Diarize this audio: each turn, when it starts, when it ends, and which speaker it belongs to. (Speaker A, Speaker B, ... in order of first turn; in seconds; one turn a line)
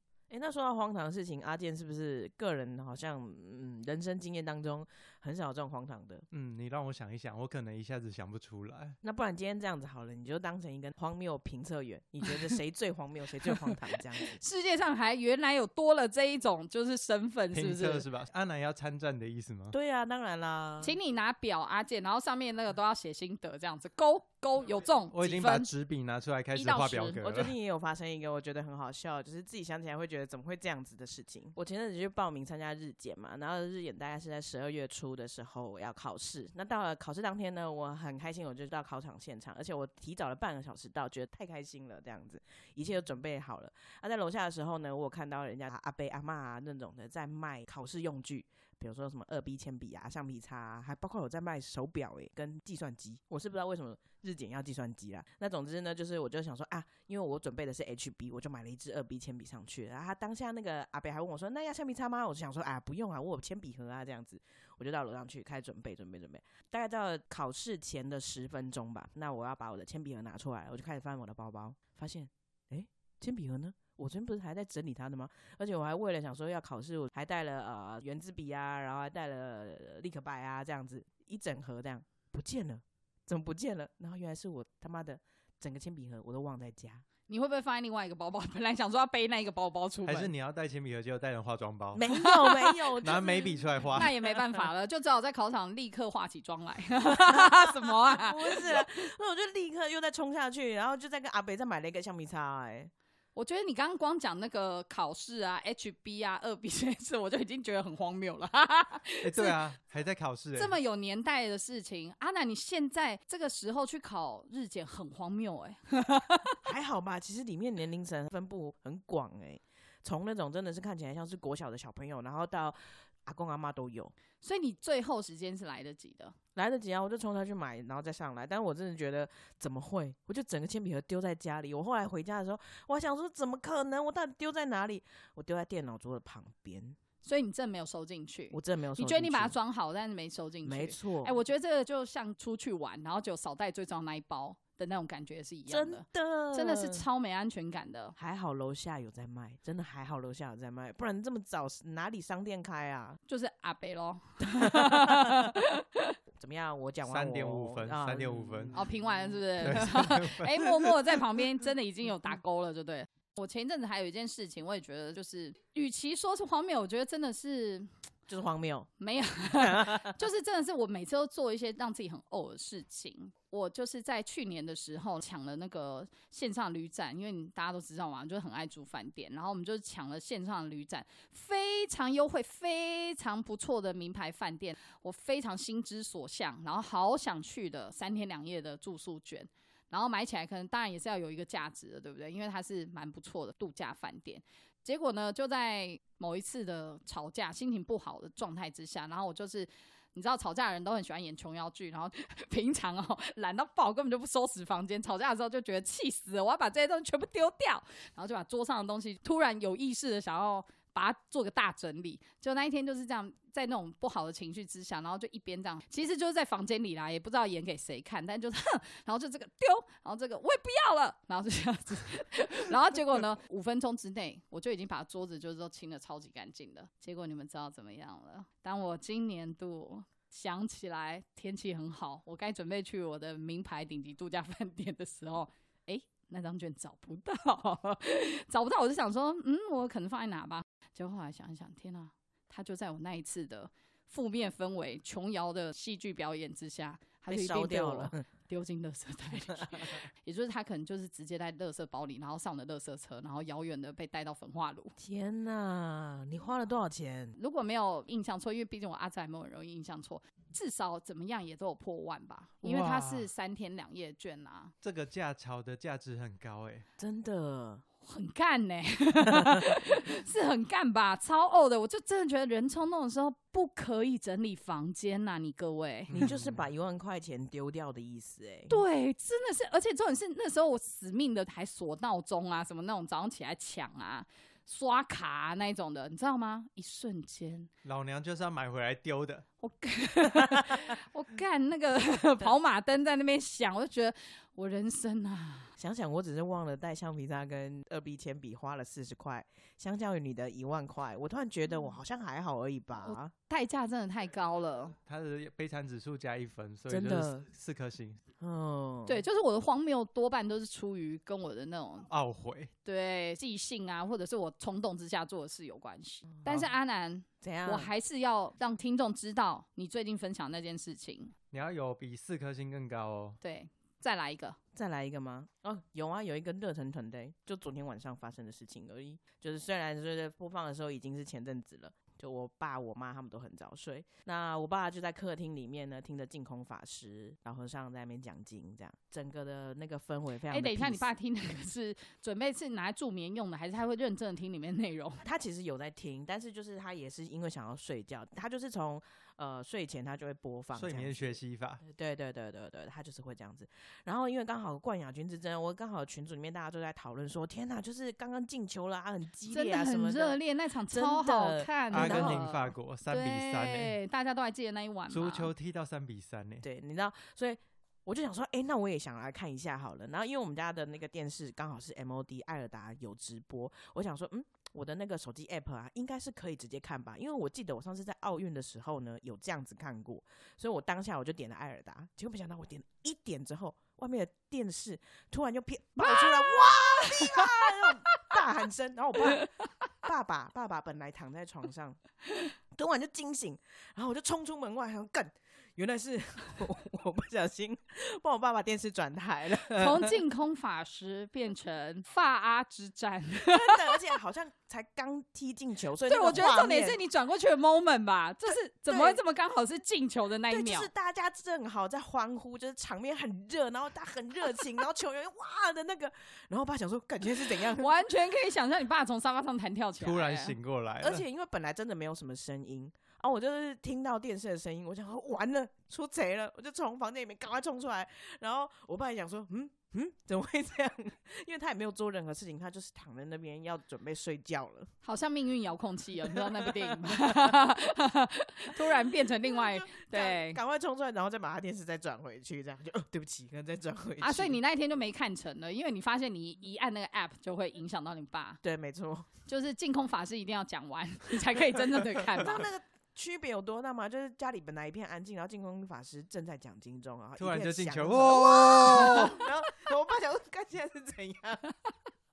Speaker A: 0.3-6.2
Speaker B: 6.3-9.0
Speaker A: 9.0-14.4
Speaker C: 14.3-18.1
Speaker B: 17.5-19.8
Speaker A: 19.7-21.0
Speaker C: 20.8-25.7
Speaker B: 25.1-27.5
Speaker C: 26.5-27.2
Speaker A: 27.2-87.0
Speaker C: 87.3-90.3
Speaker B: 90.1-92.0
Speaker A: 92.0-94.1
Speaker C: 92.1-92.7
Speaker B: 93.0-94.1
Speaker C: 93.9-98.8
Speaker A: 97.2-102.9
Speaker C: 103.4-109.6
Speaker B: 109.2-110.8
Speaker C: 110.6-116.6
Speaker A: 116.6-124.1
Speaker C: 124.4-126.3
Speaker A: 126.6-137.0
Speaker C: 137.2-148.2
Speaker A: 138.5-139.5
Speaker A: 140.7-141.4
Speaker A: 145.7-147.0
Speaker A: 148.2-153.2
Speaker C: 153.3-156.2
Speaker A: 154.8-155.4
Speaker A: 156.4-159.9
Speaker B: 157.0-158.8
Speaker C: 158.8-167.9
Speaker B: 159.6-160.6
Speaker A: 168.3-168.9
Speaker C: 169.0-254.9
Speaker A: 169.5-170.1
Speaker A: 247.3-248.2
Speaker A: 255.0-257.4
Speaker C: 257.4-264.7
Speaker B: 262.6-263.3
Speaker B: 264.8-266.9
Speaker A: 267.0-267.8
Speaker C: 268.0-276.1
Speaker B: 276.1-276.6
Speaker A: 276.1-278.8
Speaker C: 278.7-287.7
Speaker B: 287.8-289.4
Speaker C: 289.6-295.8
Speaker A: 295.8-303.3
Speaker C: 302.9-305.0
Speaker B: 305.1-308.2
Speaker A: 306.9-307.5
Speaker A: 308.4-309.2
Speaker C: 309.1-312.1
Speaker B: 312.1-312.7
Speaker C: 312.9-321.3
Speaker A: 317.4-317.9
Speaker B: 321.5-323.4
Speaker C: 323.4-324.6
Speaker A: 324.8-341.1
Speaker C: 340.5-345.2
Speaker A: 345.2-360.4
Speaker B: 350.8-351.8
Speaker C: 359.5-365.5
Speaker A: 360.9-362.4
Speaker B: 361.9-364.0
Speaker B: 365.1-366.6
Speaker A: 366.6-389.5
Speaker C: 386.1-387.5
Speaker A: 390.0-392.0
Speaker A: 392.7-400.1
Speaker C: 399.7-403.8
Speaker A: 403.4-407.0
Speaker C: 406.1-410.9
Speaker A: 408.9-409.2
Speaker A: 410.5-417.9
Speaker C: 417.6-420.6
Speaker B: 420.0-421.2
Speaker A: 421.0-434.9
Speaker C: 435.0-440.6
Speaker A: 436.3-437.5
Speaker A: 439.0-444.6
Speaker C: 444.2-448.6
Speaker A: 448.6-449.3
Speaker C: 449.5-452.7
Speaker A: 452.4-461.6
Speaker B: 457.4-459.4
Speaker C: 458.9-459.3